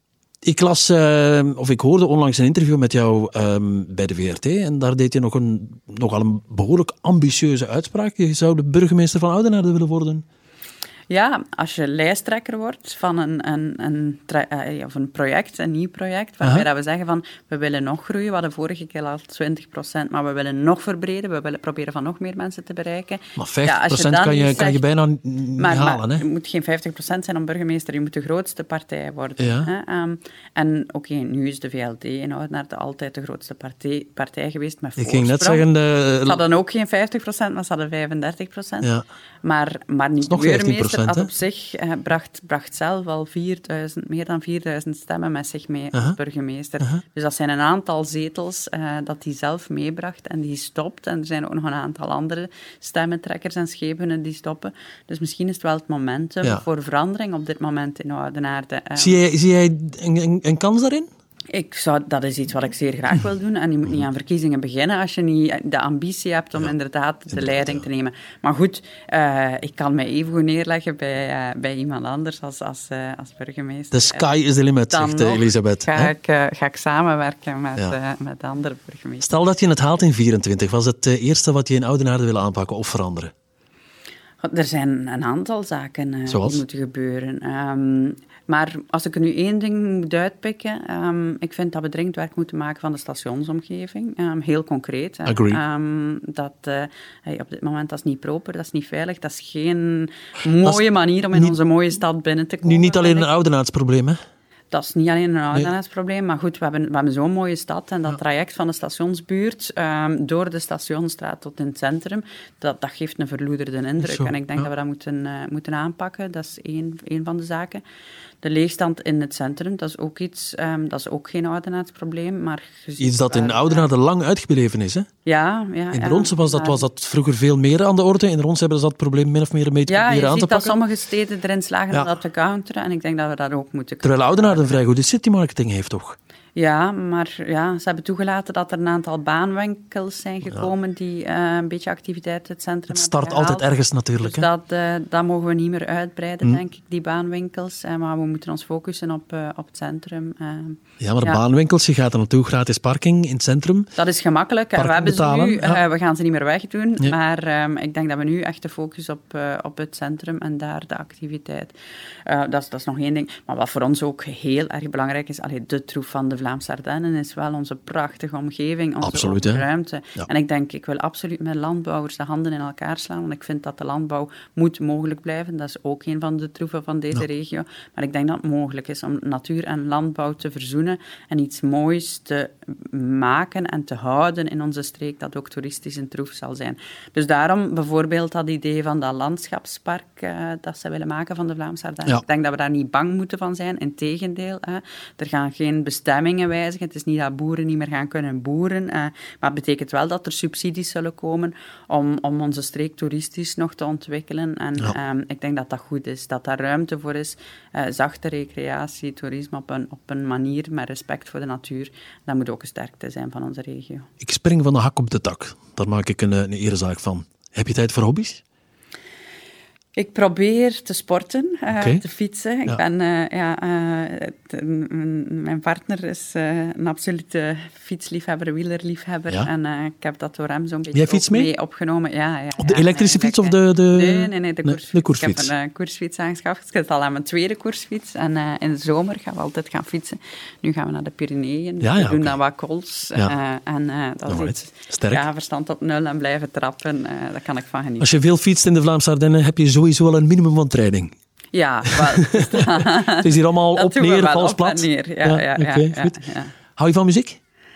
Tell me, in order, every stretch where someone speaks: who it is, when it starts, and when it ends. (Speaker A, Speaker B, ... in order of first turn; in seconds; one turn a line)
Speaker A: 0.4-10.2
Speaker B: 11.1-24.8
Speaker A: 23.4-26.2
Speaker B: 25.6-35.7
Speaker A: 29.4-29.7
Speaker A: 35.0-36.4
Speaker B: 36.2-38.9
Speaker B: 39.4-59.2
Speaker A: 40.3-41.3
Speaker A: 59.0-61.1
Speaker B: 61.5-74.3
Speaker A: 67.3-67.8
Speaker A: 73.9-76.1
Speaker B: 74.9-79.3
Speaker A: 79.2-83.3
Speaker B: 84.4-103.3
Speaker A: 86.3-86.6
Speaker A: 95.3-95.6
Speaker A: 102.6-104.2
Speaker B: 104.7-117.8
Speaker A: 114.0-114.7
Speaker B: 118.4-123.9
Speaker A: 123.0-125.1
Speaker B: 125.2-126.8
Speaker A: 125.9-130.8
Speaker B: 129.9-134.8
Speaker A: 134.0-136.2
Speaker B: 136.6-143.7
Speaker A: 142.9-144.5
Speaker B: 144.2-151.4
Speaker A: 151.0-153.9
Speaker B: 154.0-161.7
Speaker A: 154.8-155.8
Speaker B: 162.3-214.1
Speaker A: 169.0-169.7
Speaker A: 214.2-218.4
Speaker B: 220.0-248.1
Speaker A: 221.7-222.0
Speaker A: 230.9-231.5
Speaker A: 232.6-235.5
Speaker A: 241.8-242.4
Speaker A: 244.3-245.2
Speaker A: 248.0-251.1
Speaker B: 251.5-256.5
Speaker A: 251.9-256.2
Speaker A: 256.7-257.4